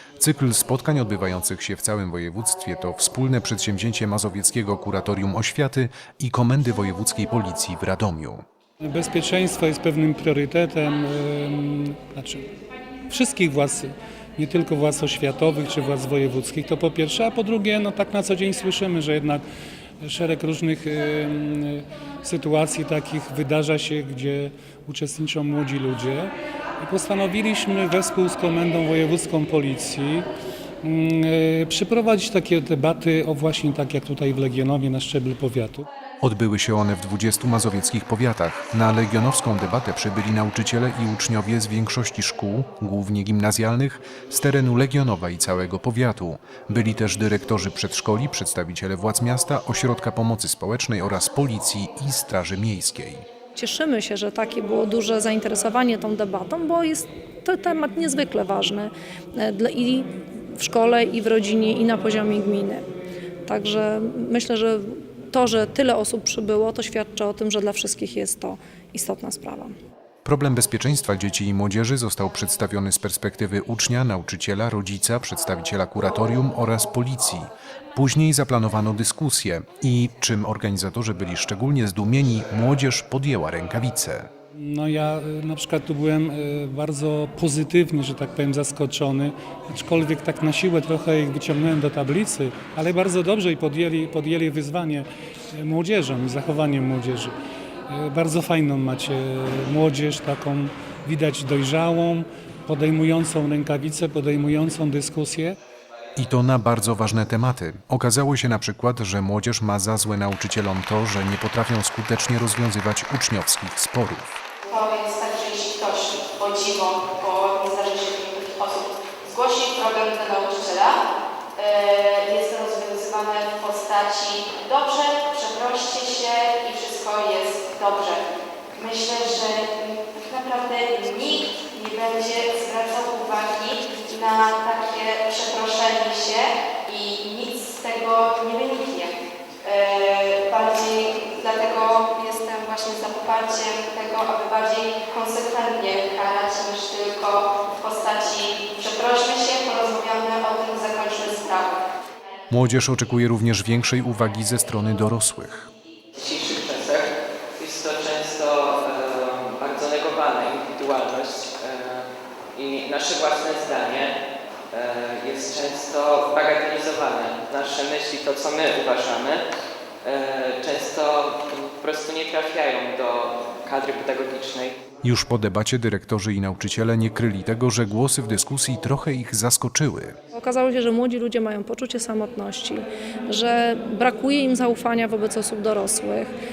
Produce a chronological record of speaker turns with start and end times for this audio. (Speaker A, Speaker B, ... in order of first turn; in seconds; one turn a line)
Speaker A: 0.2-8.4
Speaker B: 8.8-12.5
Speaker B: 13.1-19.4
Speaker B: 20.0-30.3
Speaker B: 30.8-35.9
Speaker A: 36.2-53.3
Speaker C: 53.5-62.9
Speaker C: 63.5-69.8
Speaker A: 70.2-84.3
Speaker B: 84.5-97.3
Speaker B: 97.9-105.6
Speaker A: 106.2-114.4
Speaker D: 114.7-121.0
Speaker D: 121.6-151.8
Speaker A: 152.5-155.7
Speaker E: 156.2-164.2
Speaker E: 164.7-169.4
Speaker E: 170.0-174.8
Speaker A: 175.0-180.2
Speaker C: 180.3-186.3